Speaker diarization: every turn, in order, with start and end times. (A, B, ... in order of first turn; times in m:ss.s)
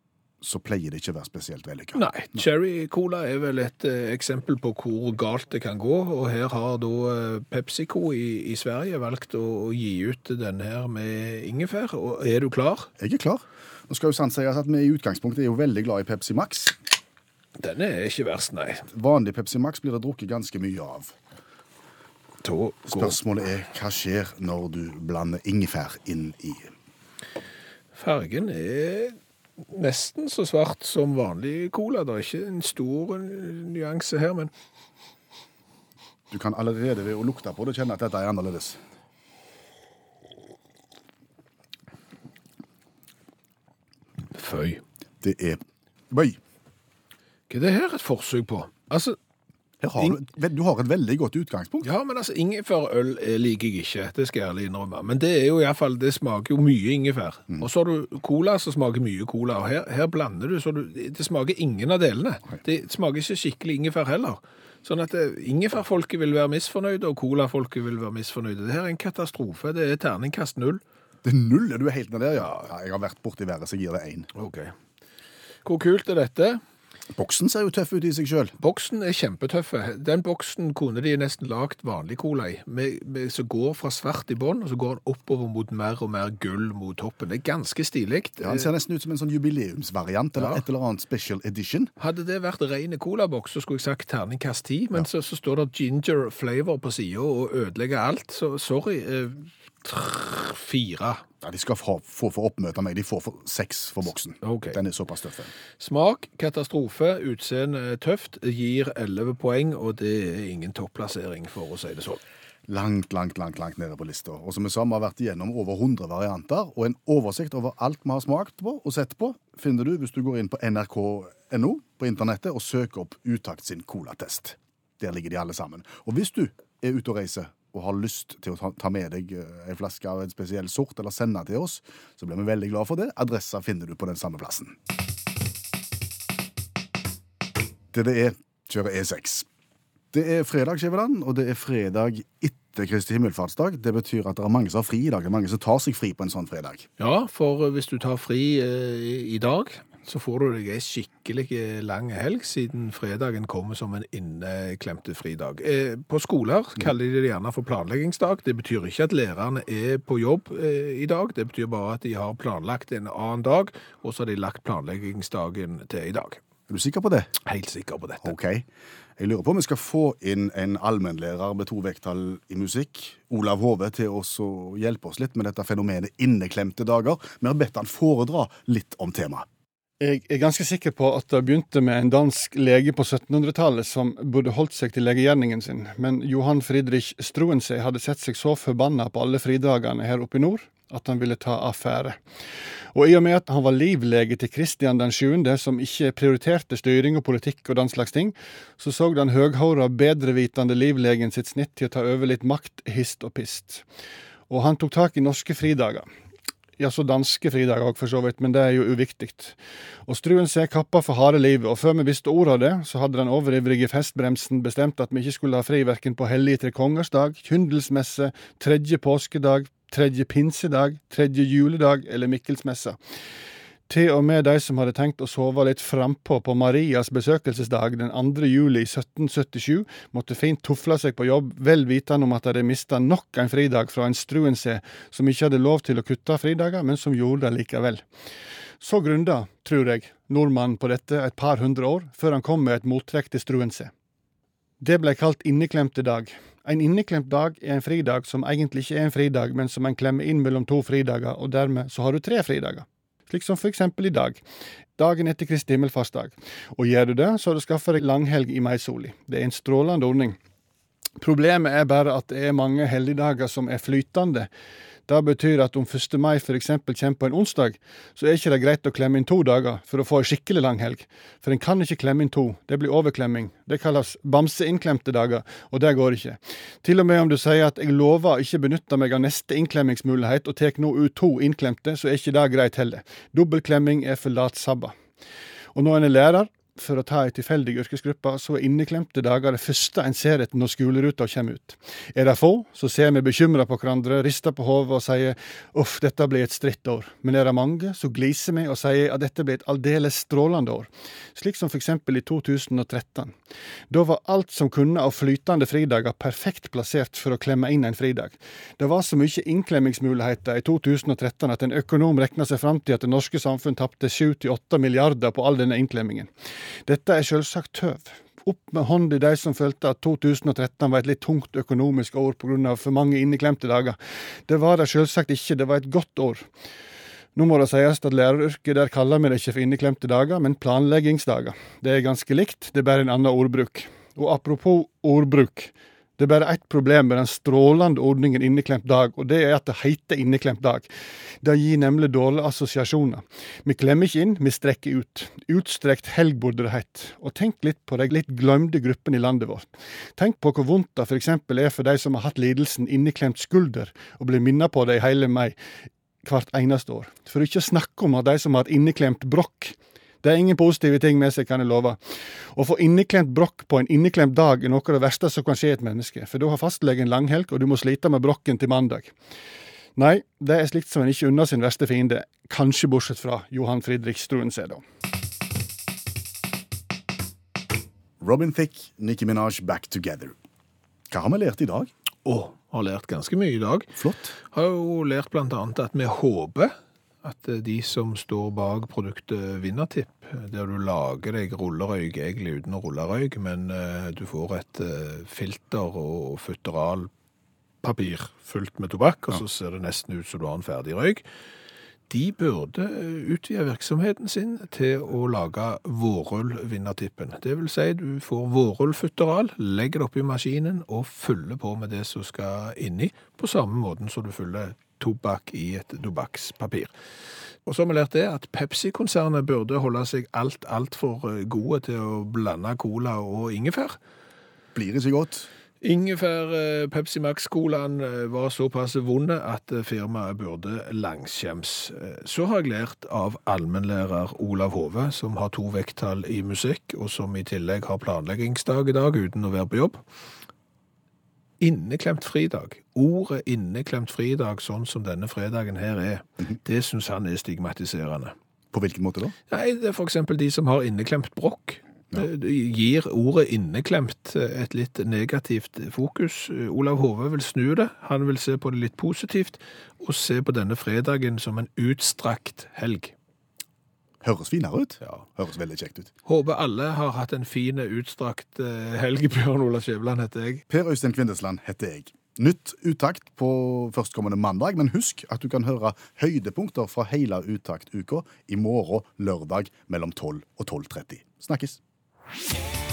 0:00.4-0:02.5 A
0:02.0-0:12.9 B
0:13.0-0:16.8 A
0:17.6-0:18.9 B
0:18.9-0:21.2 A
0:22.4-0:23.2 B
0:22.9-0:26.7 A
0:28.0-0:29.2 B
0:29.7-0:34.5 B
0:36.3-0:38.8 A
0:44.3-0:44.8 B
0:45.2-0:46.4 A
0:47.5-0:49.2 B
0:49.8-0:51.9 A
0:51.8-1:10.8 B
1:11.2-1:14.3 A
1:12.4-1:12.7 B
1:14.4-1:14.7 B
1:15.6-1:16.6 B
1:17.1-1:18.6 A
1:18.6-1:28.7 B
1:28.4-1:31.9 A
1:30.4-1:30.6 B
1:32.0-1:41.2 B
1:41.4-1:45.5 A
1:44.4-1:44.8 B
1:45.8-1:52.2 B
1:52.7-2:14.8 A
2:17.9-2:19.5 A
2:20.1-2:26.9 A
2:27.0-2:46.4 B
2:46.7-2:47.3 A
2:47.5-2:48.3 B
2:48.2-2:48.7 A
2:49.2-2:59.5 A
3:00.0-3:12.2 C
3:12.9-3:23.8 C
3:24.5-3:26.0 C
3:26.8-3:43.0 C
3:43.9-3:58.0 C
3:58.8-4:03.9 C
4:04.8-4:14.4 C
4:15.0-4:20.4 C
4:21.2-4:24.5 C
4:25.1-4:45.0 C
4:45.7-5:03.3 C
5:03.9-5:16.3 C
5:16.9-5:24.0 C
5:24.5-5:26.5 C
5:27.4-5:40.9 C
5:41.4-5:55.6 C
5:56.2-6:02.0 C
6:02.5-6:09.1 C
6:10.0-6:14.8 C
6:18.2-6:20.4 A
6:21.1-6:21.9 A
6:22.2-6:24.0 B
6:24.0-6:24.4 A
6:24.5-6:37.1 B
6:37.8-6:41.2 B
6:42.1-6:56.9 B
6:57.6-7:04.0 B
7:04.8-7:05.5 A
7:05.8-7:20.0 B
7:21.6-7:28.3 B
7:28.7-7:29.4 A
7:29.5-7:43.2 B
7:44.2-7:46.1 A
7:46.3-7:50.6 B
7:50.7-8:01.8 A